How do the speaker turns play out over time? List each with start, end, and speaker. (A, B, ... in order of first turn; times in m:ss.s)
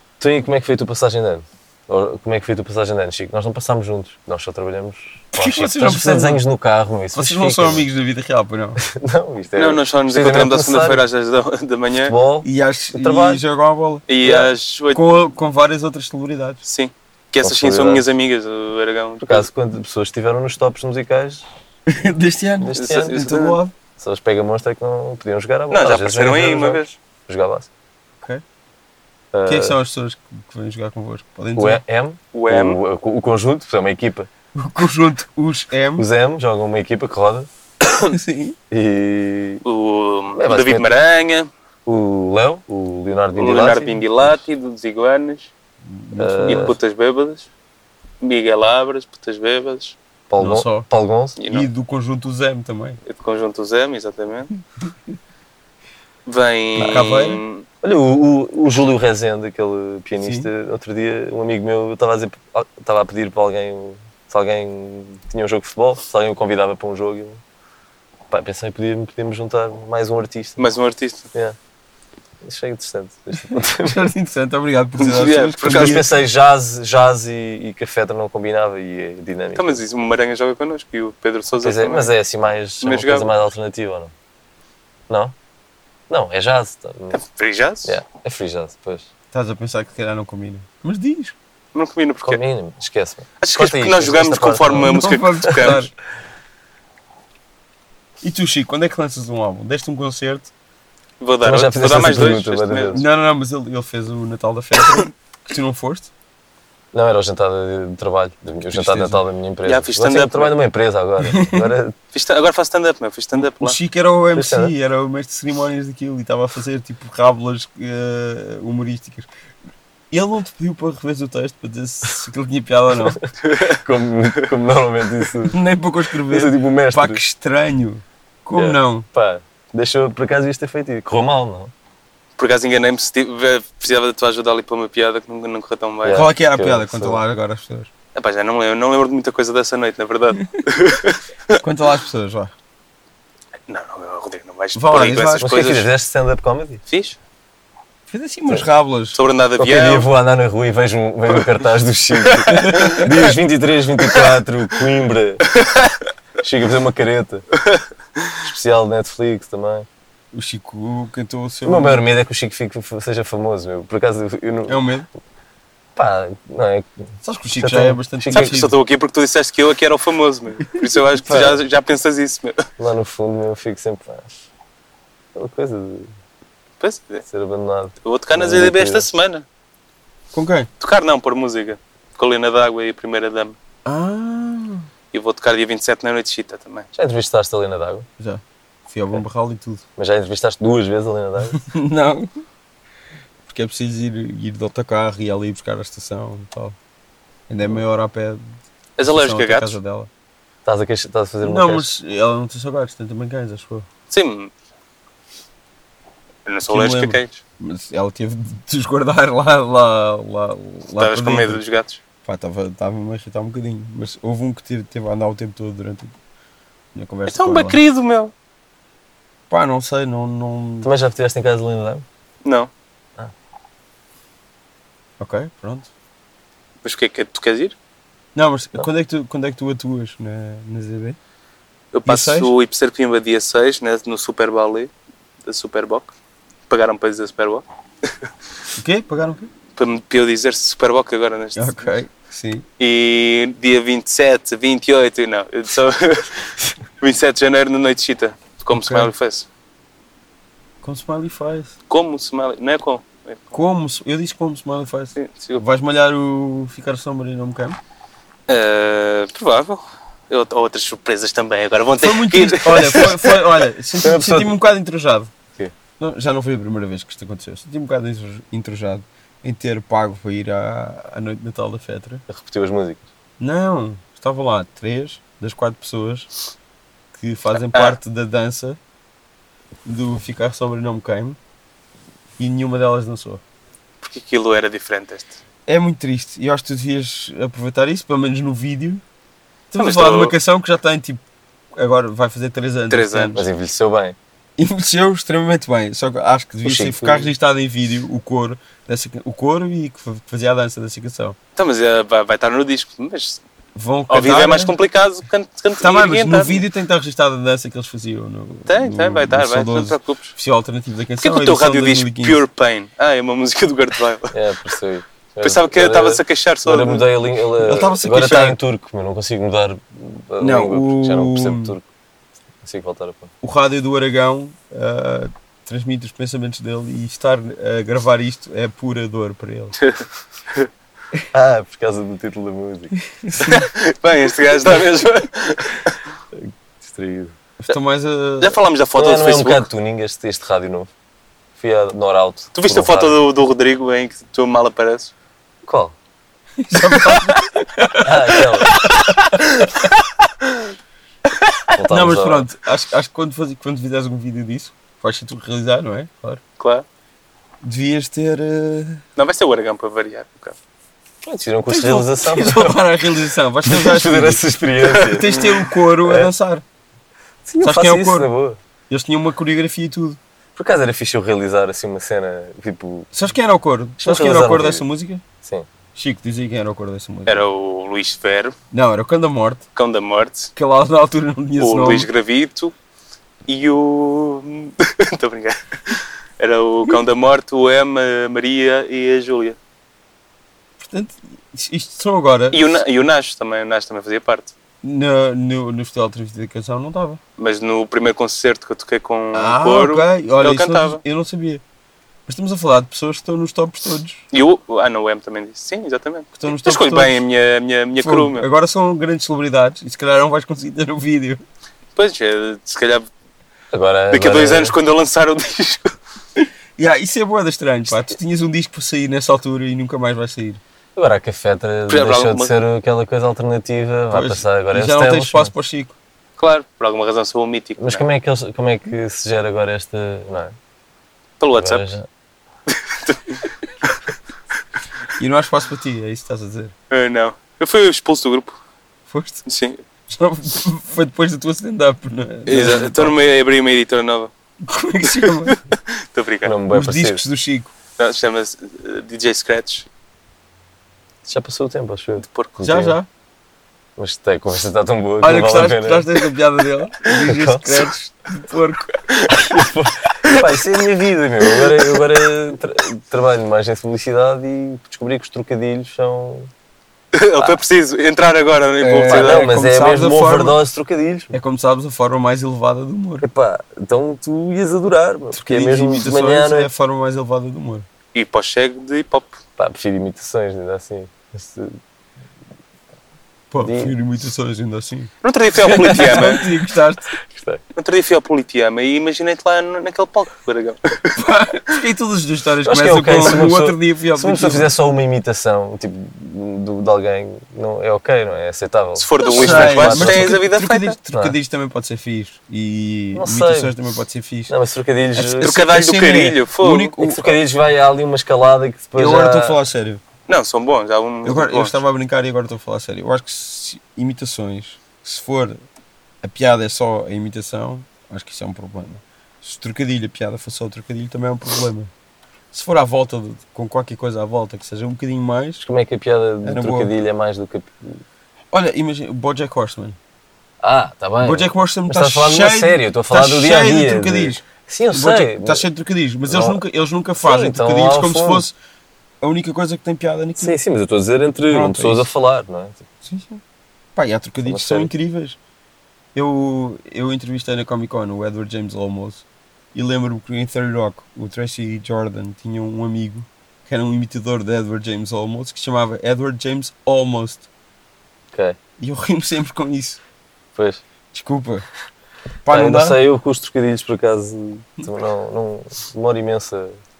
0:00.2-0:07.8 A
0:05.3-0:06.4 B
0:07.1-0:08.8 B
0:08.8-0:11.0 A
0:09.6-0:12.1 C
0:11.9-0:13.4 A
0:12.4-0:14.1 B
0:14.1-0:15.1 C
0:14.2-0:14.5 A
0:14.9-0:16.6 B
0:16.6-0:19.4 C
0:17.4-0:18.0 A
0:19.2-0:21.5 A
0:21.9-0:23.7 B
0:22.6-0:23.3 A
0:22.8-0:23.6 C
0:24.0-0:27.7 A
0:25.7-0:26.9 C
0:29.3-0:29.8 A
0:29.4-0:31.8 B
0:31.6-0:34.3 A
0:32.3-0:32.8 C
0:34.5-0:36.1 B
0:36.0-0:37.5 A
0:38.0-0:38.6 B
0:38.7-0:39.6 A
0:39.6-0:41.5 C
0:40.3-0:40.9 A
0:41.8-0:44.4 A
0:43.3-0:45.5 C
0:45.8-0:46.8 B
0:46.2-0:46.8 A
0:46.4-0:47.5 C
0:48.2-0:50.0 C
0:50.3-0:51.4 A
0:50.4-0:50.9 B
0:51.4-0:51.7 C
0:51.5-0:53.0 B
0:53.0-0:54.5 C
0:56.2-0:57.6 C
0:56.8-0:57.4 B
0:57.8-1:07.4 A
1:00.2-1:00.5 B
1:08.3-1:10.6 A
1:10.6-1:11.3 C
1:12.4-1:14.1 A
1:13.8-1:16.0 B
1:15.0-1:16.0 C
1:15.6-1:19.8 A
1:19.6-1:22.1 C
1:21.6-1:24.1 A
1:22.8-1:23.3 C
1:25.1-1:25.3 A
1:26.1-1:27.2 A
1:27.1-1:28.0 C
1:27.8-1:29.1 A
1:29.3-1:31.3 B
1:31.7-1:32.4 C
1:32.2-1:35.7 A
1:33.4-1:35.8 C
1:34.7-1:35.9 B
1:38.2-1:40.5 B
1:41.2-1:43.0 C
1:41.4-1:43.0 A
1:42.9-1:46.1 B
1:46.9-1:52.0 A
1:48.7-1:49.2 B
1:49.6-1:50.6 C
1:51.2-1:51.7 B
1:52.1-1:53.8 C
1:53.4-1:59.3 B
1:54.3-1:54.7 A
2:00.1-2:03.2 B
2:03.0-2:05.6 A
2:03.4-2:03.8 C
2:05.5-2:09.1 B
2:06.3-2:07.2 A
2:08.5-2:11.7 A
2:12.4-2:16.3 C
2:16.0-2:17.2 A
2:16.1-2:17.9 B
2:18.1-2:21.6 C
2:21.6-2:22.5 B
2:23.7-2:25.9 C
2:24.7-2:25.6 B
2:25.4-2:26.8 A
2:26.9-2:27.2 C
2:28.1-2:29.2 B
2:29.1-2:30.1 C
2:29.6-2:35.5 A
2:32.2-2:33.1 C
2:32.5-2:33.1 B
2:35.5-2:36.0 C
2:36.4-2:37.5 A
2:38.4-2:39.9 A
2:40.3-2:42.1 B
2:41.6-2:44.8 A
2:44.7-2:45.1 B
2:46.0-2:46.9 A
2:47.2-2:48.7 B
2:47.6-2:48.5 A
2:48.3-2:52.6 C
2:51.2-2:51.6 A
2:52.8-2:54.3 A
2:55.3-2:56.1 A
2:56.8-2:57.2 C
2:57.2-2:59.1 A
2:58.0-2:59.4 C
3:00.3-3:00.7 B
3:00.8-3:03.6 C
3:03.8-3:04.9 B
3:05.1-3:06.9 C
3:06.9-3:08.1 A
3:08.2-3:09.8 B
3:10.0-3:11.6 A
3:11.5-3:12.3 B
3:13.4-3:16.8 B
3:17.5-3:18.4 B
3:19.0-3:19.8 C
3:19.0-3:20.1 B
3:20.6-3:21.9 A
3:21.4-3:23.9 B
3:24.1-3:24.5 C
3:26.4-3:27.4 C
3:26.7-3:31.6 B
3:31.0-3:32.0 C
3:32.2-3:36.1 B
3:36.9-3:37.8 B
3:37.3-3:38.3 C
3:39.5-3:40.9 B
3:40.8-3:42.0 A
3:42.4-3:42.7 C
3:45.2-3:45.9 B
3:46.8-3:47.7 C
3:48.3-3:51.2 B
3:51.9-3:54.9 C
3:52.0-3:52.5 B
3:55.4-3:56.1 C
3:56.7-3:58.1 C
3:58.8-3:59.5 B
3:59.8-4:01.9 C
4:01.6-4:02.6 B
4:02.8-4:09.5 C
4:08.7-4:09.1 B
4:10.8-4:11.7 B
4:11.9-4:13.4 C
4:13.5-4:17.8 B
4:15.2-4:15.6 C
4:18.5-4:23.4 C
4:22.0-4:25.3 B
4:24.0-4:24.5 A
4:26.0-4:32.2 B
4:32.3-4:33.0 A
4:33.4-4:36.3 B
4:37.1-4:38.8 B
4:39.8-4:41.4 B
4:42.4-4:43.4 B
4:44.0-4:45.4 C
4:45.7-4:49.0 B
4:49.7-4:51.2 B
4:49.8-4:50.3 C
4:51.8-4:53.4 B
4:52.9-4:53.4 C
4:53.3-4:54.2 A
4:54.6-5:01.4 B
4:56.6-4:57.3 A
5:01.6-5:03.4 C
5:03.7-5:04.7 B
5:04.1-5:06.6 C
5:05.8-5:12.4 B
5:08.7-5:10.3 C
5:11.2-5:14.4 C
5:14.3-5:21.8 A
5:15.4-5:17.1 C
5:17.6-5:18.6 B
5:20.4-5:21.8 B
5:22.6-5:23.3 A
5:23.4-5:29.7 B
5:29.8-5:30.7 C
5:31.3-5:32.9 A
5:33.1-5:33.7 B
5:33.4-5:35.9 C
5:36.3-5:37.4 A
5:37.6-5:38.6 B
5:38.4-5:39.7 C
5:38.9-5:40.9 A
5:41.6-5:43.2 A
5:42.5-5:45.1 C
5:45.6-5:46.0 A
5:46.6-5:49.9 B
5:46.9-5:47.2 C
5:48.0-5:48.7 A
5:51.7-5:52.4 A
5:51.9-5:56.4 B
5:56.6-5:56.8 C
5:57.6-5:59.0 B
5:59.2-6:00.5 C
6:01.2-6:02.8 A
6:01.7-6:06.6 B
6:03.6-6:05.5 A
6:06.0-6:06.3 A
6:07.4-6:08.6 A
6:07.6-6:08.3 B
6:08.9-6:10.2 B
6:10.6-6:13.1 A
6:13.1-6:15.2 B
6:14.0-6:14.8 A
6:15.4-6:15.7 A
6:15.9-6:17.4 B
6:17.3-6:18.5 C
6:18.7-6:19.7 B
6:19.7-6:20.5 C
6:20.6-6:22.1 B
6:21.6-6:22.7 C
6:23.5-6:29.6 C
6:30.8-6:32.7 B
6:32.5-6:34.5 C
6:34.8-6:37.2 B
6:37.4-6:41.0 C
6:39.3-6:41.6 B
6:42.3-6:44.2 B
6:44.3-6:48.5 C
6:46.4-6:47.2 B
6:48.0-6:51.4 B
6:52.0-6:53.0 C
6:53.7-6:54.7 A
6:54.1-6:55.9 C
6:56.4-7:00.6 B
7:00.9-7:05.5 A
7:01.9-7:02.5 C
7:04.1-7:06.0 B
7:06.4-7:08.0 C
7:07.8-7:10.6 A
7:11.4-7:11.9 C
7:11.5-7:12.1 A
7:12.7-7:14.0 C
7:15.2-7:16.7 B
7:16.9-7:18.6 C
7:19.1-7:19.4 B
7:19.5-7:19.8 C
7:20.1-7:23.2 B
7:22.5-7:24.3 C
7:24.6-7:25.6 B
7:25.1-7:26.5 C
7:26.4-7:27.2 A
7:26.7-7:27.7 B
7:28.0-7:29.8 C
7:31.2-7:33.0 A
7:32.2-7:32.6 C
7:32.6-7:33.1 B
7:34.0-7:36.3 A
7:35.2-7:39.0 B
7:37.0-7:37.9 A
7:39.3-7:46.5 A
7:47.1-7:49.5 C
7:48.8-7:50.6 B
7:49.1-7:51.3 A
7:51.3-7:53.3 B
7:53.2-7:56.7 A
7:55.3-7:57.9 B
7:58.1-7:59.4 C
7:59.6-8:01.8 A
8:03.5-8:05.1 B
8:03.6-8:03.9 A
8:05.2-8:06.5 C
8:05.6-8:06.4 A
8:05.6-8:07.2 B
8:07.2-8:07.6 A
8:07.8-8:11.1 C
8:11.1-8:14.7 B
8:12.6-8:20.4 A
8:19.0-8:21.0 C
8:19.2-8:24.5 B
8:23.1-8:23.7 A
8:24.5-8:25.6 A
8:25.1-8:27.3 B
8:25.4-8:27.0 C
8:27.0-8:29.6 A
8:29.0-8:30.0 B
8:30.3-8:31.8 C
8:31.2-8:35.6 B
8:36.2-8:41.9 B
8:42.5-8:45.6 B
8:45.6-8:48.0 A
8:46.4-8:46.9 B
8:48.5-8:50.0 B
8:50.6-8:55.6 A
8:51.2-8:58.5 B
8:56.3-8:56.6 A
8:57.2-8:58.5 A
8:59.2-9:00.6 B
9:00.4-9:02.8 A
9:01.5-9:02.1 B
9:03.0-9:03.4 B
9:04.0-9:05.4 B
9:04.4-9:04.9 A
9:06.1-9:17.5 B
9:18.3-9:18.6 A
9:18.8-9:20.0 B
9:20.5-9:20.8 A
9:21.1-9:21.6 B
9:22.4-9:23.0 B
9:22.5-9:26.8 A